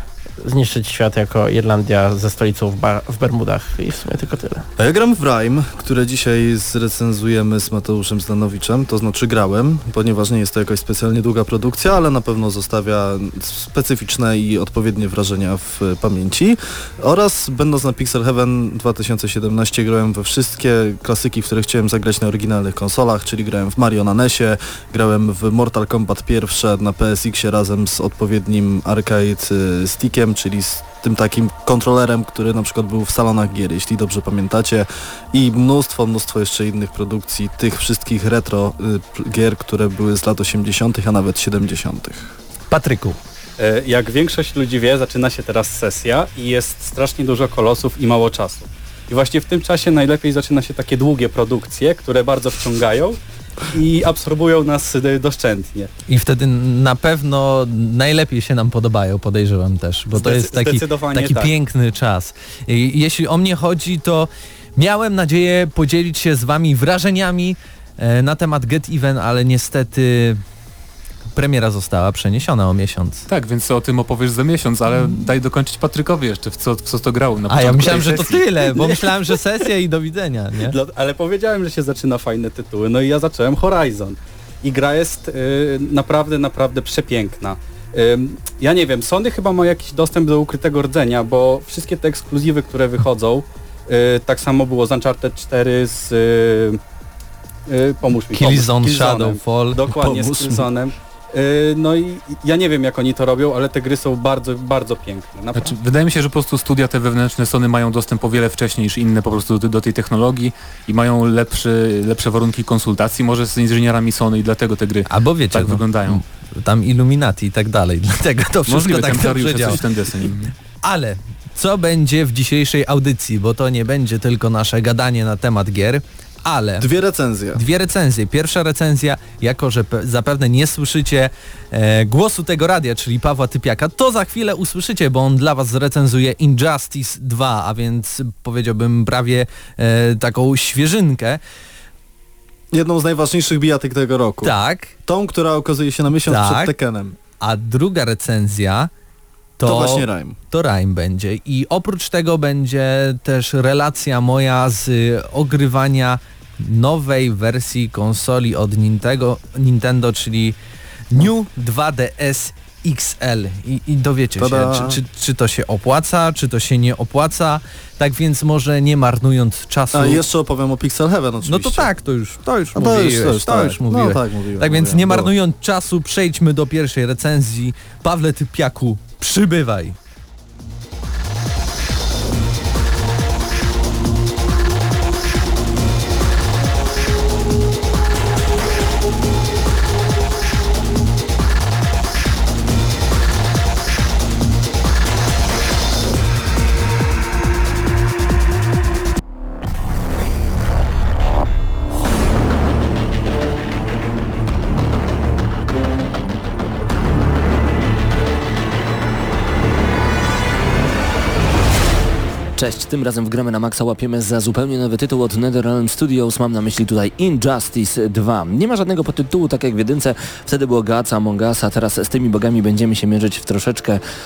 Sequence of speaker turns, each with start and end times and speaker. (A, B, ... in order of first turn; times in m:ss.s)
0:00.4-0:04.7 A
0:04.8-0:42.3 B
0:42.7-0:43.2 C
0:43.6-0:53.2 D
0:53.7-0:55.9 D
0:56.1-1:10.4 C
1:00.1-1:01.5 D
1:11.3-1:13.2 C
1:13.3-1:18.7 E
1:17.5-1:20.8 C
1:20.6-1:36.8 D
1:37.7-1:45.7 D
1:38.3-1:39.8 C
1:39.8-1:40.7 B
1:45.5-1:56.2 E
1:55.1-1:59.8 C
1:58.7-2:00.5 E
2:00.8-2:06.9 C
2:06.8-2:07.6 B
2:07.5-2:21.4 C
2:22.7-2:24.5 B
2:24.4-2:24.9 C
2:25.0-2:27.2 B
2:26.3-2:26.7 C
2:27.4-2:28.9 C
2:29.6-2:40.6 C
2:29.6-2:30.4 B
2:41.1-2:50.2 C
2:44.4-2:45.0 B
2:49.9-2:51.9 B
2:51.4-3:00.0 C
2:52.7-2:55.3 B
3:32.6-3:44.0 F